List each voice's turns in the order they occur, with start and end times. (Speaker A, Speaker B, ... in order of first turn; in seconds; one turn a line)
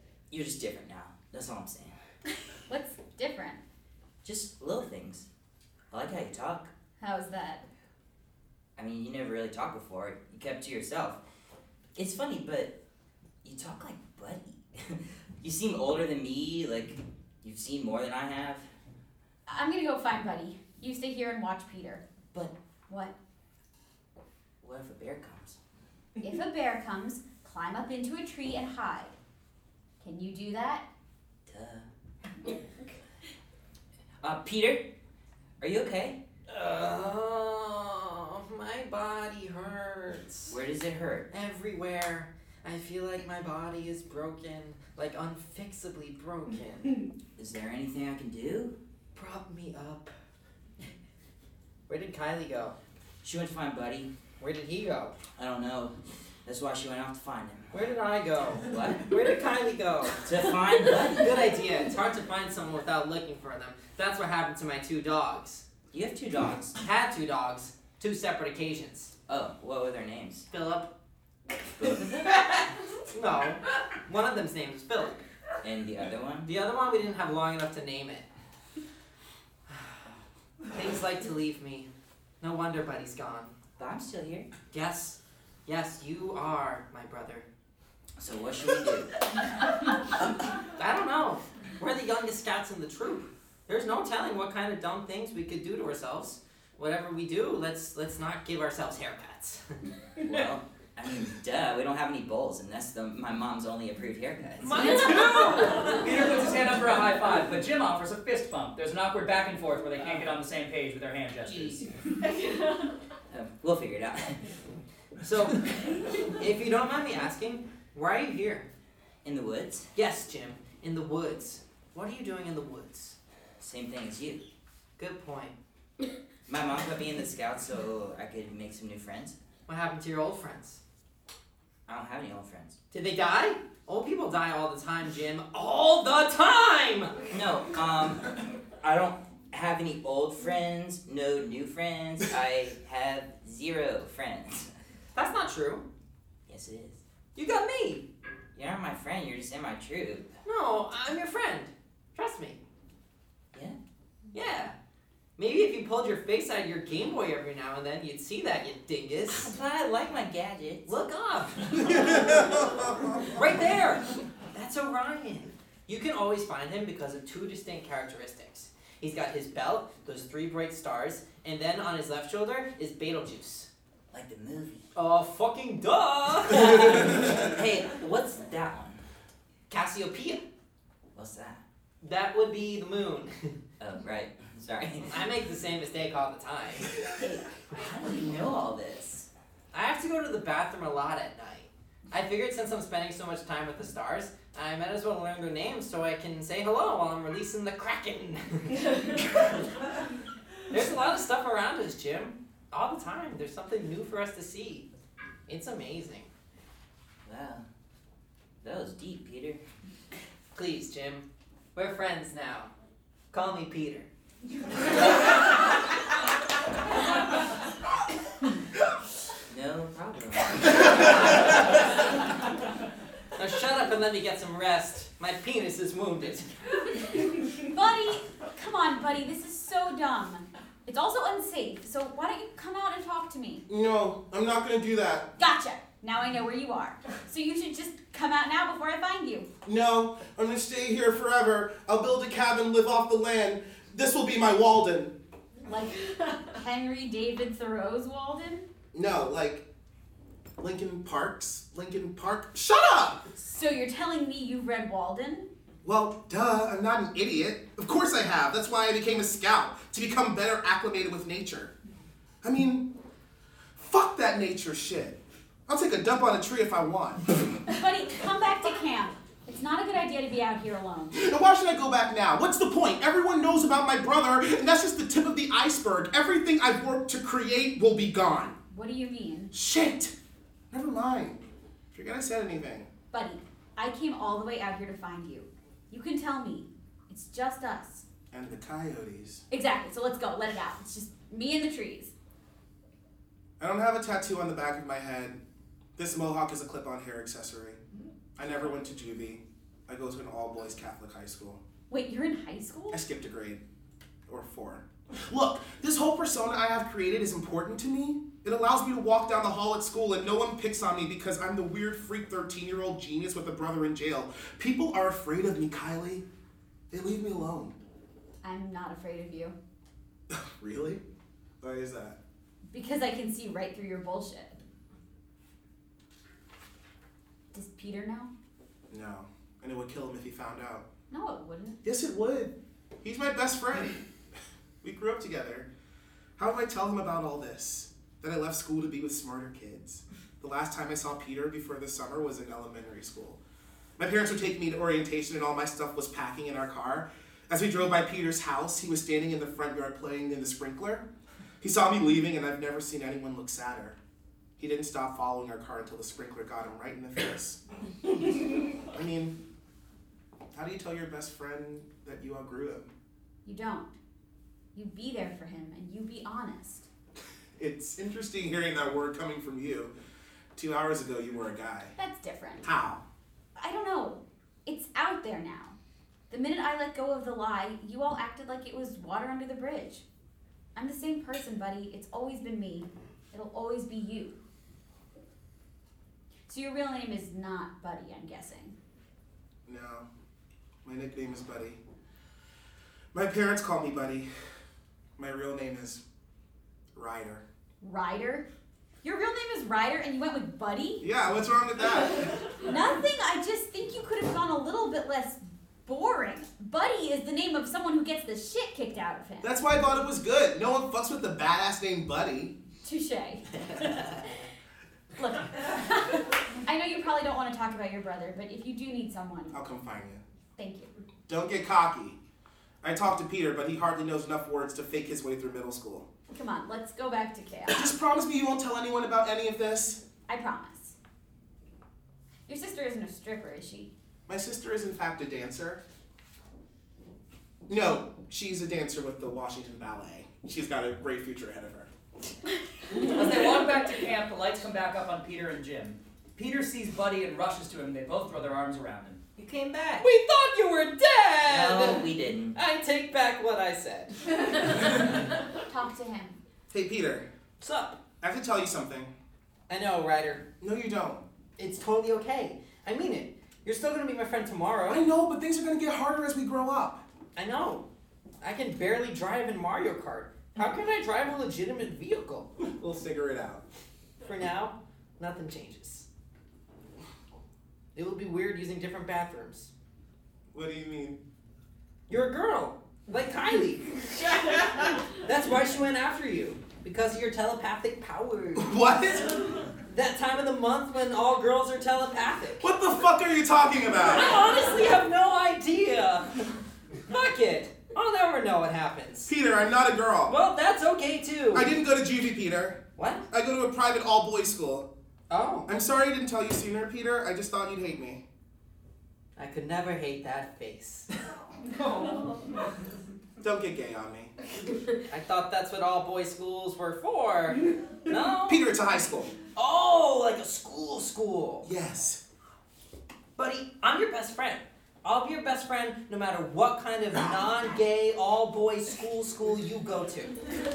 Speaker A: 0.3-1.9
Speaker B: 2.7-3.6
Speaker A: 4.2-5.3
Speaker A: 5.9-6.7
Speaker B: 7.0-7.7
Speaker A: 8.8-11.2
Speaker A: 11.9-12.8
Speaker A: 13.4-18.7
Speaker B: 19.5-22.0
Speaker B: 22.9-23.1
Speaker A: 24.6-25.6
Speaker B: 26.2-29.1
Speaker B: 30.0-30.9
Speaker A: 31.5-31.9
Speaker A: 34.2-34.9
Speaker A: 35.6-36.2
Speaker C: 36.5-40.6
Speaker A: 40.5-41.3
Speaker C: 41.3-47.1
Speaker A: 47.4-48.8
Speaker C: 49.1-50.1
Speaker C: 51.9-52.8
Speaker A: 53.2-54.1
Speaker C: 54.4-55.2
Speaker A: 55.4-57.8
Speaker C: 57.7-60.2
Speaker A: 58.7-59.0
Speaker A: 60.2-61.4
Speaker C: 61.1-65.7
Speaker A: 65.9-66.8
Speaker C: 66.8-69.1
Speaker A: 69.3-70.5
Speaker C: 70.5-70.9
Speaker A: 71.8-72.3
Speaker C: 72.2-72.5
Speaker C: 73.1-75.2
Speaker A: 75.6-76.5
Speaker C: 76.5-78.3
Speaker C: 80.7-81.9
Speaker C: 82.4-83.5
Speaker A: 83.8-84.5
Speaker C: 84.7-87.5
Speaker A: 88.2-89.1
Speaker C: 90.8-99.7
Speaker A: 100.2-105.2
Speaker C: 104.6-106.1
Speaker D: 105.9-111.8
Speaker A: 113.3-114.4
Speaker C: 115.2-115.7
Speaker C: 116.4-118.7
Speaker A: 119.2-119.9
Speaker C: 120.0-123.2
Speaker A: 123.6-124.4
Speaker C: 125.0-125.5
Speaker A: 126.5-129.4
Speaker C: 129.7-130.8
Speaker A: 131.9-132.8
Speaker C: 132.9-137.2
Speaker A: 137.3-144.7
Speaker C: 145.2-145.8
Speaker A: 146.5-147.0
Speaker C: 147.3-148.1
Speaker A: 148.6-150.3
Speaker C: 150.4-152.6
Speaker C: 154.3-154.8
Speaker C: 155.4-159.5
Speaker A: 159.3-160.9
Speaker C: 160.9-162.4
Speaker E: 161.9-163.2
Speaker C: 163.2-173.7
Speaker A: 174.1-174.9
Speaker C: 174.9-177.4
Speaker A: 176.5-179.0
Speaker C: 179.7-180.4
Speaker A: 181.1-181.6
Speaker C: 182.0-183.5
Speaker A: 183.8-185.3
Speaker C: 185.1-186.9
Speaker A: 187.2-189.3
Speaker C: 189.7-199.0
Speaker C: 200.7-204.9
Speaker C: 205.5-206.3
Speaker A: 207.2-207.7
Speaker A: 208.6-209.6
Speaker C: 210.5-212.7
Speaker C: 213.3-214.1
Speaker A: 219.5-221.3
Speaker C: 223.4-226.6
Speaker B: 227.6-233.7
Speaker E: 233.7-235.3
Speaker B: 235.4-239.5
Speaker E: 239.6-245.1
Speaker B: 245.7-248.7
Speaker E: 248.9-249.6
Speaker E: 250.6-253.2
Speaker B: 253.4-255.5
Speaker E: 255.8-261.7
Speaker E: 262.4-262.9
Speaker E: 263.8-267.2
Speaker B: 267.7-271.2
Speaker E: 271.1-278.6
Speaker B: 278.7-279.5
Speaker E: 279.5-280.1
Speaker E: 280.7-282.9
Speaker B: 283.1-288.1
Speaker E: 288.3-289.4
Speaker B: 289.5-292.1
Speaker E: 293.6-295.4
Speaker E: 296.0-297.8
Speaker E: 298.4-301.6
Speaker B: 301.9-303.0
Speaker E: 302.9-303.6
Speaker E: 304.3-316.2
Speaker E: 316.9-317.8
Speaker B: 318.4-319.6
Speaker E: 320.3-321.0
Speaker E: 321.6-322.2
Speaker B: 322.7-324.6
Speaker B: 327.5-328.3
Speaker E: 328.9-330.9
Speaker B: 331.1-331.8
Speaker E: 331.8-334.0
Speaker E: 334.8-335.7
Speaker E: 336.4-343.4
Speaker E: 344.0-351.1
Speaker E: 351.6-354.0
Speaker E: 354.6-357.6
Speaker E: 358.9-359.4
Speaker E: 360.5-362.9
Speaker B: 363.4-363.9
Speaker B: 364.8-366.9
Speaker E: 367.6-369.9
Speaker E: 370.6-371.9
Speaker B: 372.0-372.7
Speaker E: 372.6-373.0
Speaker B: 373.6-375.8
Speaker B: 376.3-380.1
Speaker B: 380.8-384.4
Speaker B: 386.5-388.8
Speaker E: 389.7-390.1
Speaker E: 390.8-391.8
Speaker E: 393.1-394.3
Speaker E: 395.2-396.0
Speaker E: 396.9-397.4
Speaker B: 397.8-398.5
Speaker B: 399.0-401.1
Speaker E: 401.0-402.3
Speaker B: 402.6-409.5
Speaker E: 409.4-412.5
Speaker B: 412.8-414.0
Speaker B: 415.2-419.6
Speaker E: 419.5-420.2
Speaker B: 420.6-420.9
Speaker E: 421.3-422.2
Speaker E: 422.8-426.1
Speaker B: 426.3-427.9
Speaker E: 427.7-430.0
Speaker B: 430.3-431.0
Speaker B: 432.5-433.9
Speaker E: 434.3-435.8
Speaker E: 437.7-441.9
Speaker D: 443.0-449.2
Speaker C: 449.8-454.1
Speaker A: 451.4-452.6
Speaker B: 455.6-456.4
Speaker E: 456.7-457.3
Speaker C: 457.6-458.0
Speaker E: 458.2-459.1
Speaker C: 459.7-460.5
Speaker E: 460.6-461.2
Speaker C: 461.6-465.1
Speaker E: 464.9-467.0
Speaker C: 467.4-467.9
Speaker C: 468.4-472.5
Speaker E: 472.6-473.6
Speaker C: 474.2-476.1
Speaker C: 477.9-479.7
Speaker E: 480.5-481.2
Speaker C: 482.1-488.8
Speaker E: 488.6-489.6
Speaker C: 489.8-492.7
Speaker E: 492.6-494.4
Speaker C: 494.0-496.4
Speaker C: 497.1-499.3
Speaker E: 499.3-500.3
Speaker C: 500.3-501.7
Speaker E: 501.5-504.9
Speaker C: 503.0-503.3
Speaker C: 505.3-505.7
Speaker E: 505.7-508.2
Speaker C: 509.4-511.1
Speaker E: 513.4-514.3
Speaker C: 515.1-518.6
Speaker E: 518.5-519.3
Speaker C: 519.5-521.7
Speaker E: 521.6-522.2
Speaker C: 523.4-530.4